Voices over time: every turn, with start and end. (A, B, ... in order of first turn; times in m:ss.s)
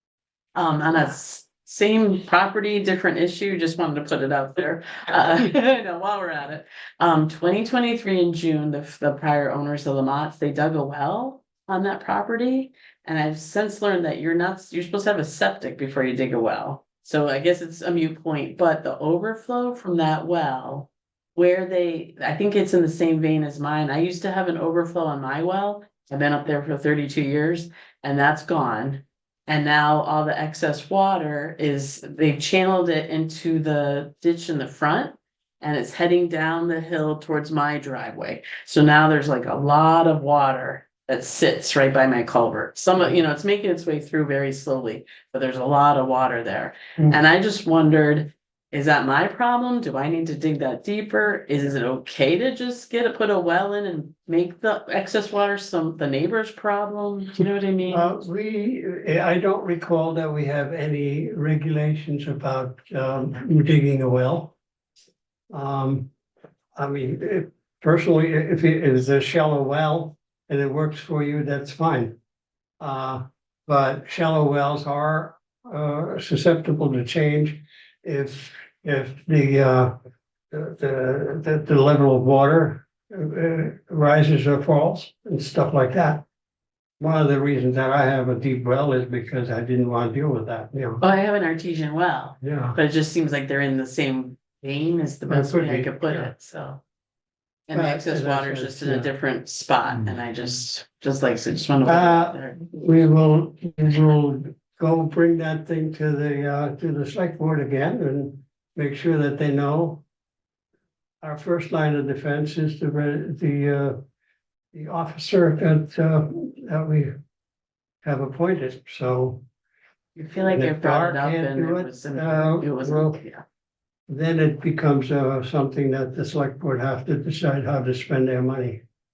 0:00.5-0:58.1 A
0:57.9-1:04.5 B
1:05.5-1:06.1 B
1:06.8-1:12.2 B
1:12.8-1:19.9 B
1:20.5-1:26.2 B
1:27.0-1:31.0 B
1:31.0-1:36.8 A
1:32.4-1:32.8 B
1:35.3-1:36.3 B
1:37.7-1:42.6 A
1:37.7-1:39.1 B
1:41.8-1:50.0 B
1:51.2-1:54.0 B
1:54.7-1:57.2 B
1:58.0-1:59.4 B
2:00.2-2:03.4 A
2:00.4-2:03.2 B
2:04.1-2:08.8 B